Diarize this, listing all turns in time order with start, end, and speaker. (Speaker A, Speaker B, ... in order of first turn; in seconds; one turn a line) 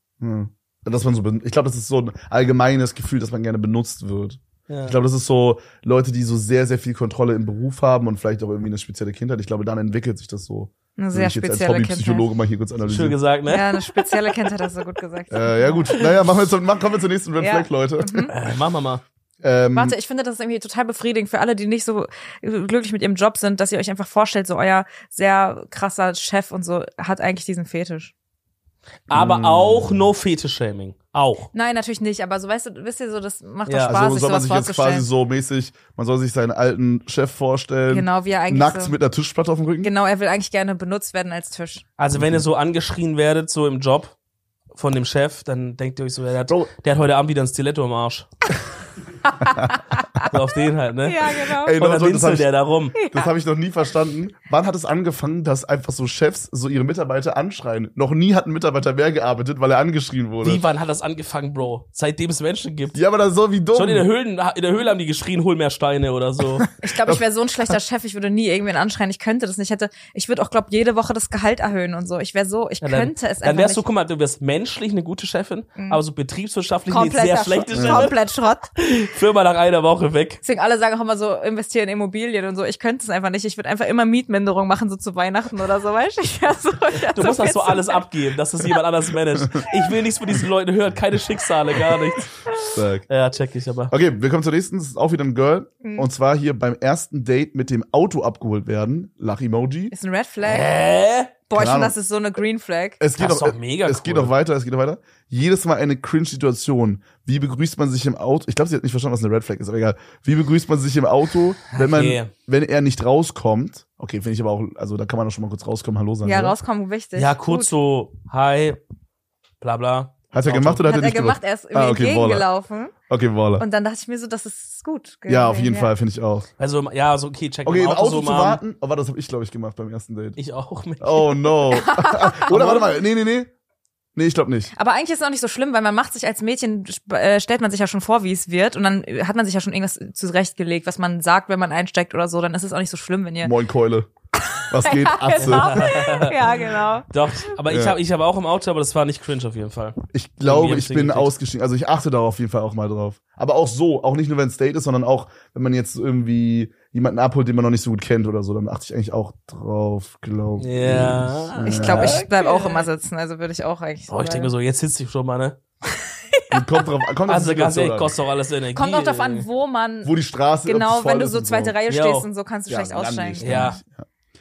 Speaker A: 0.2-13.2
Speaker B: 4.7-4.9
Speaker C: 11.0-12.3
Speaker B: 12.8-14.3
Speaker C: 13.5-16.0
Speaker A: 15.3-18.3
Speaker C: 17.4-18.3
Speaker B: 18.3-19.0
Speaker A: 19.4-19.9
Speaker C: 19.7-28.1
Speaker B: 29.1-31.5
Speaker A: 29.1-30.1
Speaker C: 31.5-35.0
Speaker B: 33.6-34.0
Speaker A: 33.8-39.9
Speaker C: 37.9-38.9
Speaker C: 39.8-41.8
Speaker B: 42.0-44.1
Speaker A: 42.1-42.4
Speaker B: 44.7-48.3
Speaker C: 49.3-50.4
Speaker A: 49.5-50.2
Speaker B: 50.3-53.0
Speaker C: 51.0-51.8
Speaker A: 51.6-60.6
Speaker C: 53.0-53.3
Speaker B: 60.4-63.0
Speaker A: 62.9-64.1
Speaker B: 63.7-66.6
Speaker A: 66.6-67.2
Speaker C: 66.8-73.8
Speaker B: 72.8-78.2
Speaker C: 75.8-76.0
Speaker C: 76.9-78.7
Speaker A: 77.7-78.1
Speaker B: 78.8-80.4
Speaker C: 80.4-88.0
Speaker B: 87.1-92.3
Speaker A: 92.6-93.0
Speaker B: 93.1-93.9
Speaker A: 93.9-99.9
Speaker C: 95.8-96.1
Speaker C: 99.9-100.7
Speaker B: 100.4-101.3
Speaker C: 101.5-103.0
Speaker A: 101.5-101.9
Speaker A: 103.0-116.5
Speaker B: 103.2-104.3
Speaker B: 111.7-112.3
Speaker C: 116.2-117.7
Speaker B: 117.1-118.8
Speaker B: 119.6-120.8
Speaker A: 120.3-122.5
Speaker C: 120.8-122.9
Speaker A: 123.1-123.6
Speaker C: 123.6-125.9
Speaker A: 125.3-126.5
Speaker B: 126.6-128.6
Speaker A: 127.6-130.4
Speaker B: 130.4-131.3
Speaker A: 131.0-133.5
Speaker C: 131.7-132.5
Speaker B: 132.5-132.9
Speaker A: 134.2-134.7
Speaker C: 134.7-143.5
Speaker A: 143.4-144.1
Speaker C: 144.6-147.5
Speaker A: 144.7-146.2
Speaker B: 145.4-151.3
Speaker A: 147.7-148.0
Speaker A: 150.1-162.2
Speaker B: 160.6-162.9
Speaker C: 161.6-164.5
Speaker B: 164.1-165.6
Speaker A: 166.5-168.2
Speaker B: 167.3-169.4
Speaker C: 168.7-173.8
Speaker A: 170.0-171.8
Speaker B: 171.9-172.3
Speaker A: 172.7-174.0
Speaker B: 173.4-173.8